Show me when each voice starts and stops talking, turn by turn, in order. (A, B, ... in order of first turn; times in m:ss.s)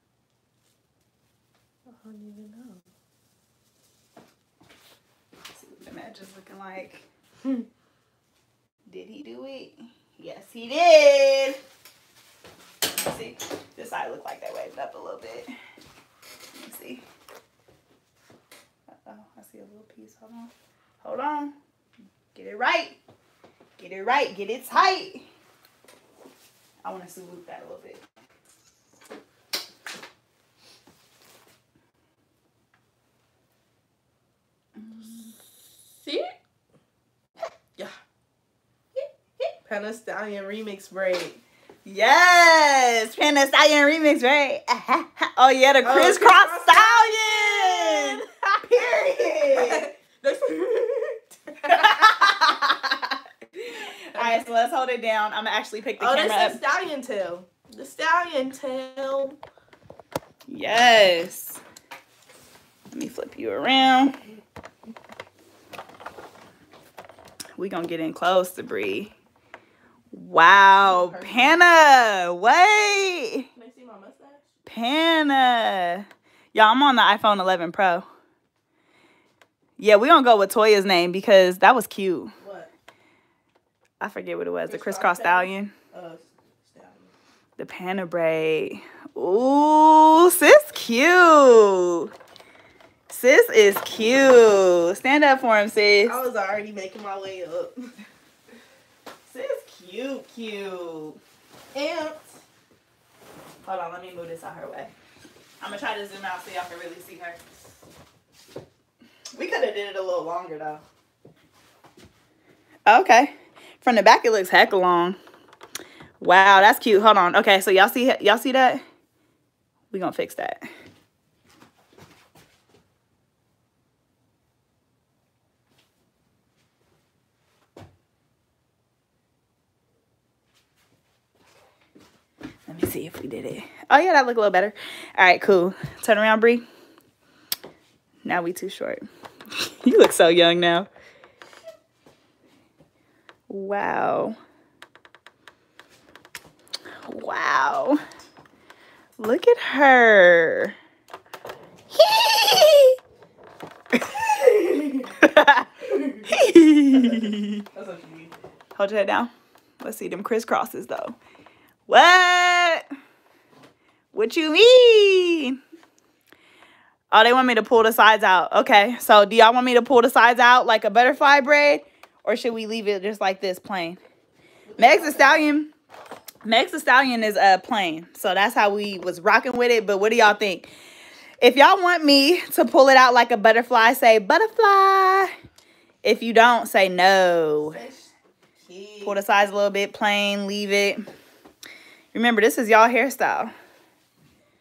0:01.9-0:02.8 A
0:05.6-0:07.0 B
0:08.9-0:11.6 B
0:13.0-0:15.5 B
0:16.5-0:17.0 B
0:18.9-0:21.6 B
0:22.4-0:23.0 B
0:23.8-0:25.2 B
0:26.8-0:28.0 B
0:34.8-0:35.3 B
0:35.0-0:35.4 A
0:35.9-0:36.3 A
0:39.0-0:39.5 B
0:39.6-0:41.4 A
0:41.8-0:49.9 B
0:45.8-0:48.4 A
0:49.5-0:52.2 A
0:51.7-0:56.6 B
0:54.1-0:54.4 A
0:56.0-0:59.4 A
1:00.5-1:01.6 B
1:02.9-1:04.2 B
1:07.6-1:09.2 B
1:10.1-1:13.5 B
1:10.8-1:11.6 A
1:13.6-1:14.5 A
1:14.7-1:18.0 B
1:19.8-1:22.3 B
1:22.4-1:22.7 A
1:24.0-1:25.7 B
1:24.7-1:27.1 A
1:27.6-1:32.1 B
1:33.1-1:36.2 B
1:36.1-1:37.9 A
1:39.3-1:41.2 B
1:41.7-1:42.3 A
1:43.6-1:44.9 B
1:45.6-1:47.4 B
1:49.3-1:50.8 B
1:52.9-1:55.2 B
1:56.2-1:58.8 B
1:59.9-2:00.7 B
2:12.7-2:16.6 B
2:18.2-2:19.0 B
2:19.6-2:20.9 B
2:23.5-2:24.4 B
2:27.0-2:28.0 B
2:29.2-2:30.7 B
2:31.9-2:33.0 B
2:34.1-2:35.2 A
2:35.2-2:35.7 B
2:35.8-2:36.4 A
2:36.3-2:37.7 B
2:36.9-2:38.4 A
2:38.8-2:41.2 B
2:41.9-2:42.8 B
2:44.1-2:45.6 B
2:47.1-2:54.0 B
2:54.7-2:55.5 A
2:54.8-2:55.7 B
2:56.4-3:00.7 B
3:01.4-3:05.3 B
3:06.0-3:07.8 B
3:07.7-3:09.2 A
3:09.0-3:11.0 B
3:12.1-3:13.5 B